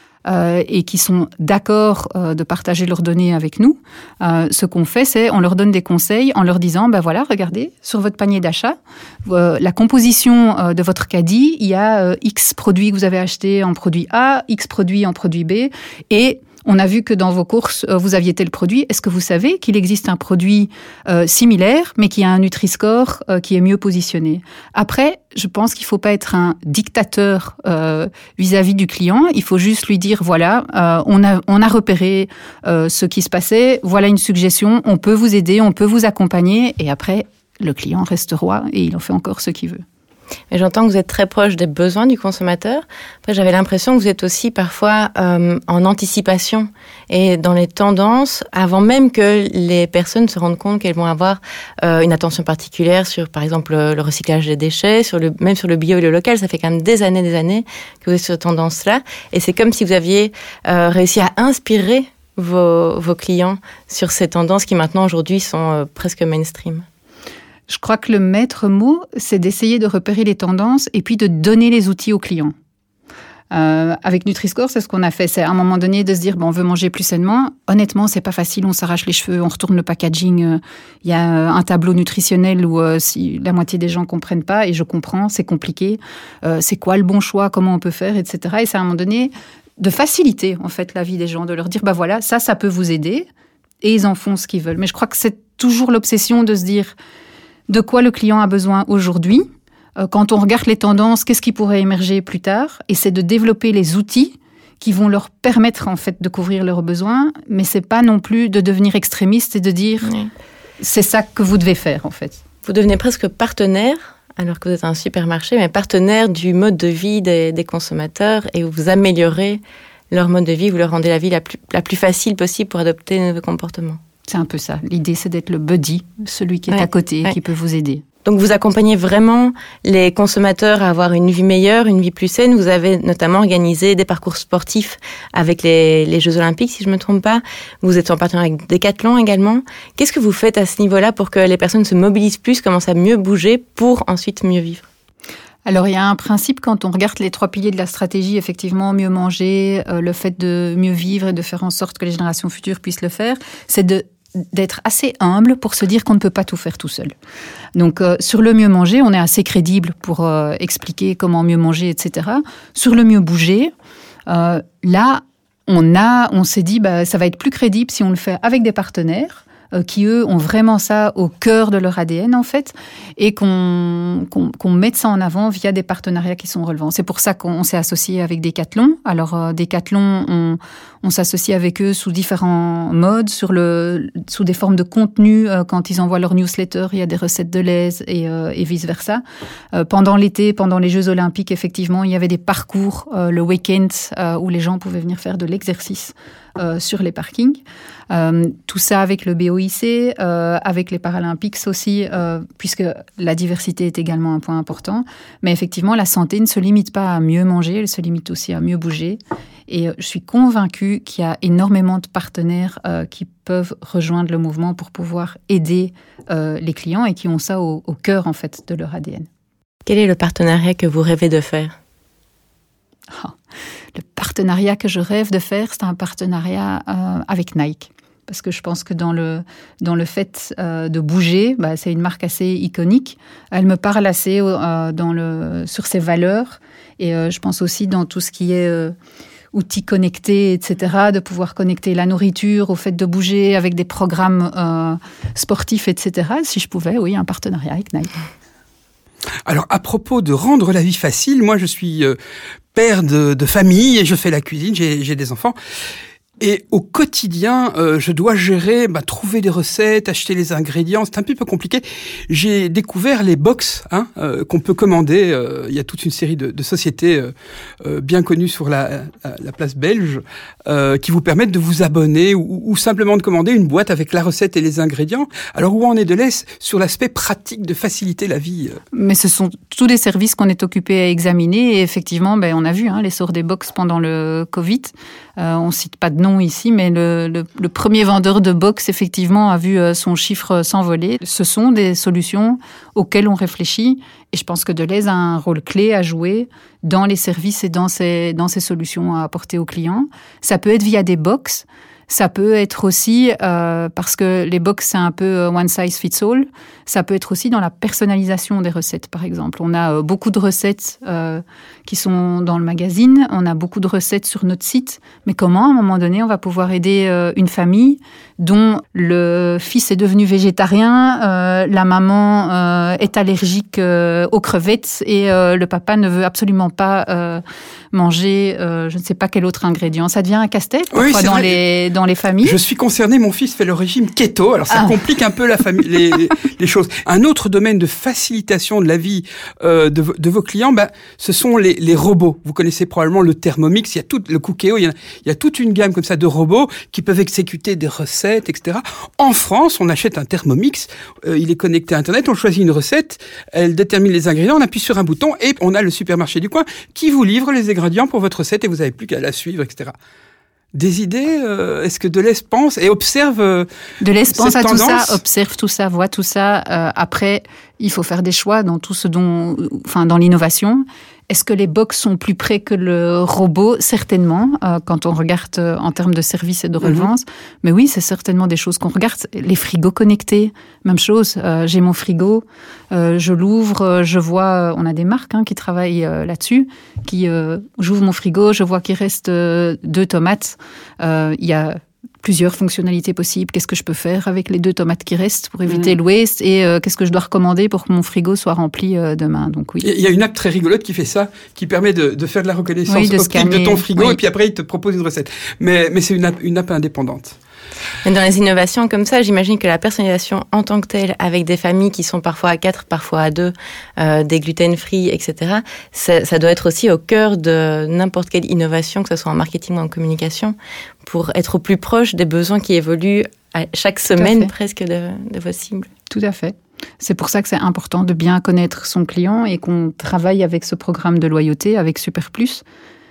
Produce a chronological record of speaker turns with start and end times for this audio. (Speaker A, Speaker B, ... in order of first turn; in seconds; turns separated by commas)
Speaker A: 0.2-39.8, Speaker B: 40.5-66.8, Speaker A: 67.7-72.5, Speaker A: 73.5-93.3, Speaker A: 93.8-96.9, Speaker A: 97.7-99.5, Speaker A: 100.0-110.1, Speaker A: 110.8-112.4, Speaker B: 112.6-124.0, Speaker A: 124.3-128.0, Speaker B: 126.7-127.3, Speaker B: 128.2-144.8, Speaker A: 145.7-157.1, Speaker A: 157.8-163.7, Speaker A: 164.3-219.3, Speaker B: 219.8-221.8, Speaker A: 223.9-238.9, Speaker A: 239.5-248.1, Speaker C: 249.5-252.2, Speaker C: 252.7-255.5, Speaker C: 256.4-278.8, Speaker A: 278.9-327.4, Speaker A: 327.9-332.6, Speaker C: 330.9-331.6, Speaker C: 332.4-359.9, Speaker C: 360.7-363.7, Speaker A: 364.0-399.9, Speaker C: 364.3-365.2, Speaker C: 399.8-407.4, Speaker A: 402.9-404.2, Speaker B: 408.0-425.9, Speaker A: 424.1-424.5, Speaker A: 426.1-432.6